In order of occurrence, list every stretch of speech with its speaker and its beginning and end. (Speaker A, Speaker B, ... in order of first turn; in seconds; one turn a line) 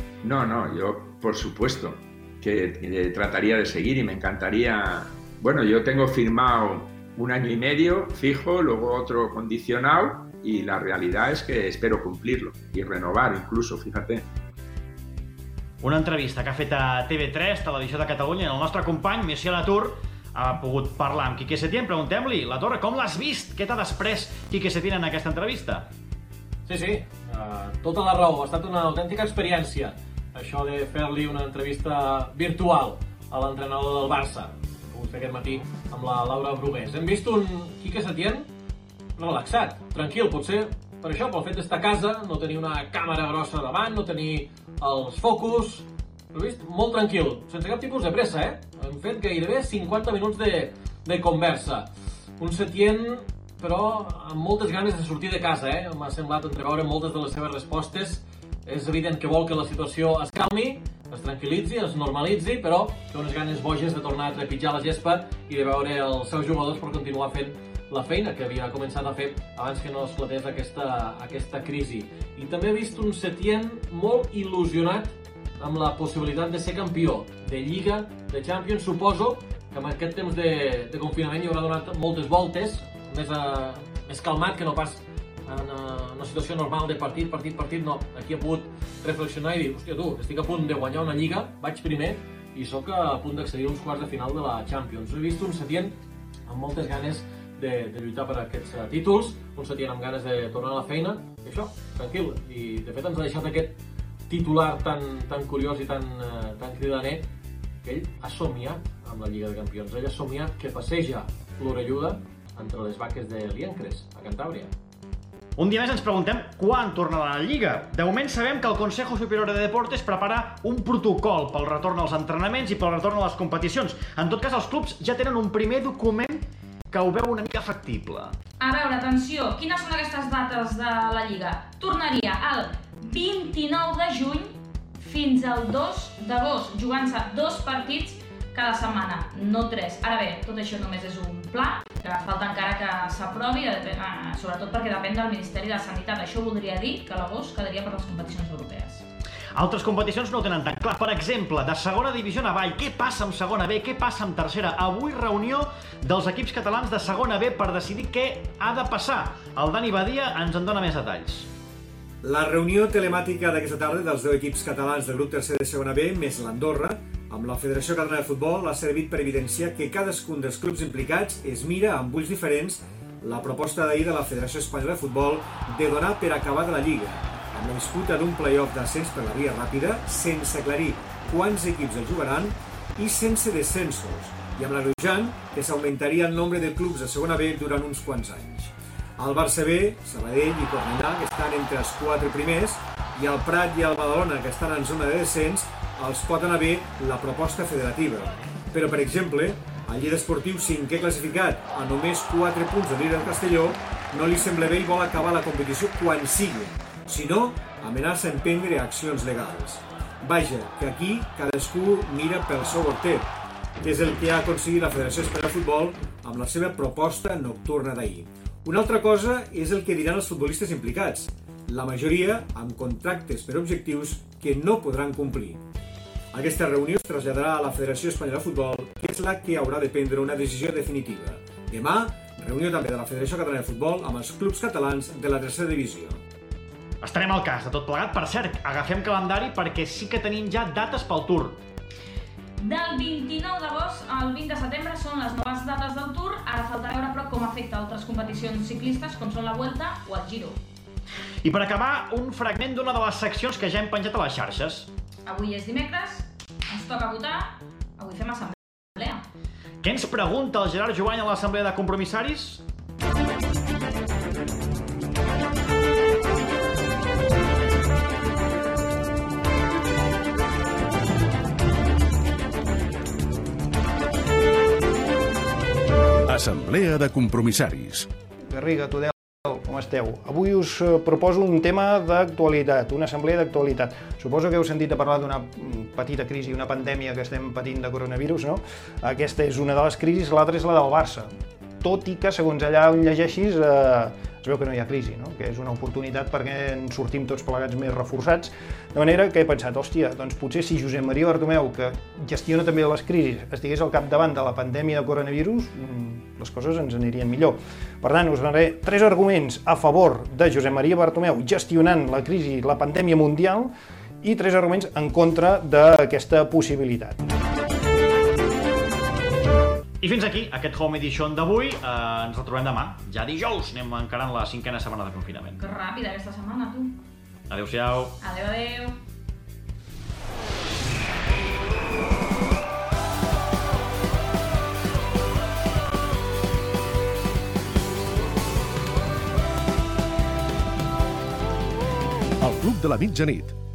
Speaker A: 0.2-14.2
Speaker B: 15.8-25.9
Speaker C: 26.6-38.5
Speaker C: 39.2-95.9
Speaker C: 96.5-103.7
Speaker C: 104.3-107.2
Speaker C: 107.8-114.7
Speaker B: 115.6-128.3
Speaker D: 128.6-149.0
Speaker B: 149.5-161.5
Speaker E: 162.2-225.7
Speaker E: 226.3-236.2
Speaker B: 237.0-241.6
Speaker D: 242.6-250.6
Speaker B: 251.4-254.9
Speaker D: 255.2-259.2
Speaker B: 259.8-262.6
Speaker F: 276.2-278.1
Speaker G: 278.5-291.3
Speaker G: 291.8-317.2
Speaker B: 320.0-325.6
Speaker D: 325.6-327.0
Speaker B: 327.5-328.1
Speaker D: 328.2-329.0
Speaker F: 342.4-343.6